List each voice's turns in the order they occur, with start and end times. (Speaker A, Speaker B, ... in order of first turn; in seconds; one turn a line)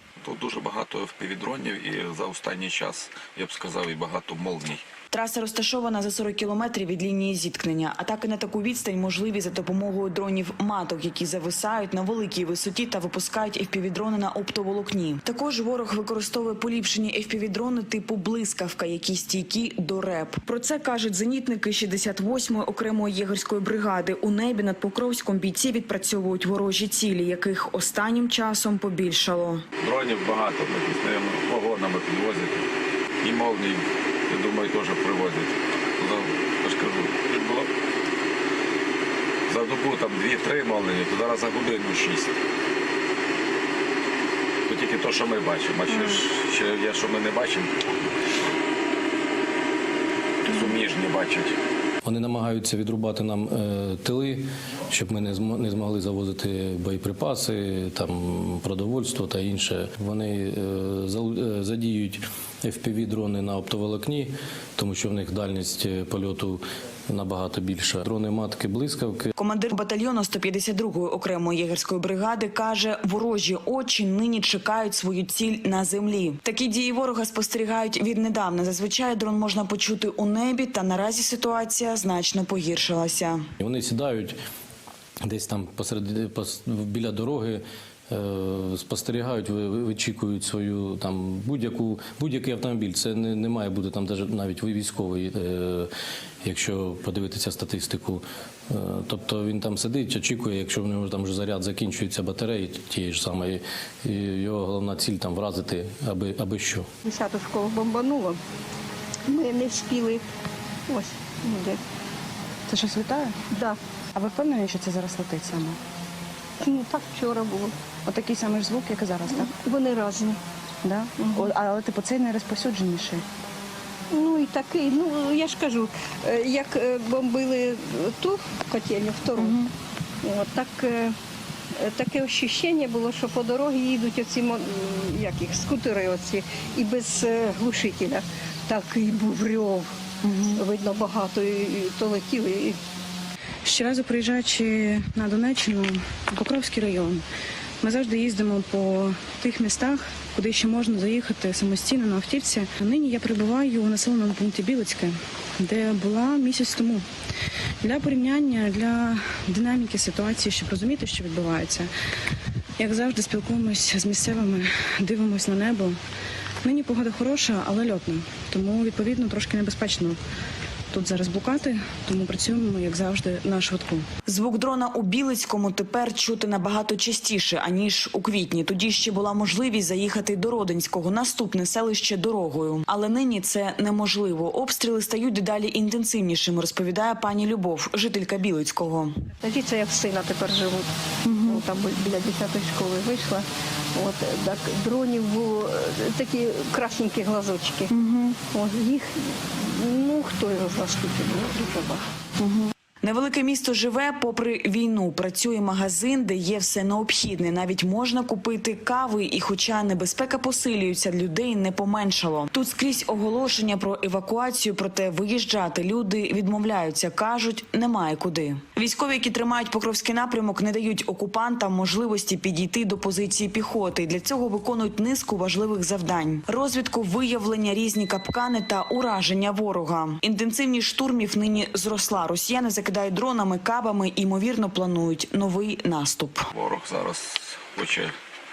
Speaker A: 0.2-4.9
Speaker B: 5.1-29.6
Speaker A: 29.8-32.7
Speaker A: 33.2-37.7
Speaker A: 39.5-42.4
Speaker A: 44.7-47.7
Speaker A: 50.5-51.6
Speaker C: 52.0-69.3
Speaker B: 69.4-83.4
Speaker C: 83.6-84.4
Speaker C: 85.2-95.9
Speaker C: 96.4-106.9
Speaker D: 107.0-108.4
Speaker D: 109.3-110.2
Speaker D: 110.9-111.8
Speaker E: 112.7-113.3
Speaker D: 113.5-113.8
Speaker E: 114.2-115.8
Speaker D: 116.6-117.7
Speaker E: 118.1-119.5
Speaker D: 119.3-120.4
Speaker E: 120.9-123.2
Speaker D: 121.2-121.5
Speaker D: 124.1-129.6
Speaker D: 130.2-131.2
Speaker D: 131.8-139.9
Speaker D: 140.6-142.8
Speaker E: 143.7-147.2
Speaker E: 147.8-157.0
Speaker E: 157.8-161.9
Speaker E: 162.8-165.9
Speaker E: 166.6-170.2
Speaker E: 170.9-174.1
Speaker B: 174.2-189.1
Speaker D: 189.4-190.9
Speaker B: 191.3-191.6
Speaker D: 191.4-202.0
Speaker B: 197.9-198.4
Speaker B: 202.4-236.5
Speaker A: 236.5-238.1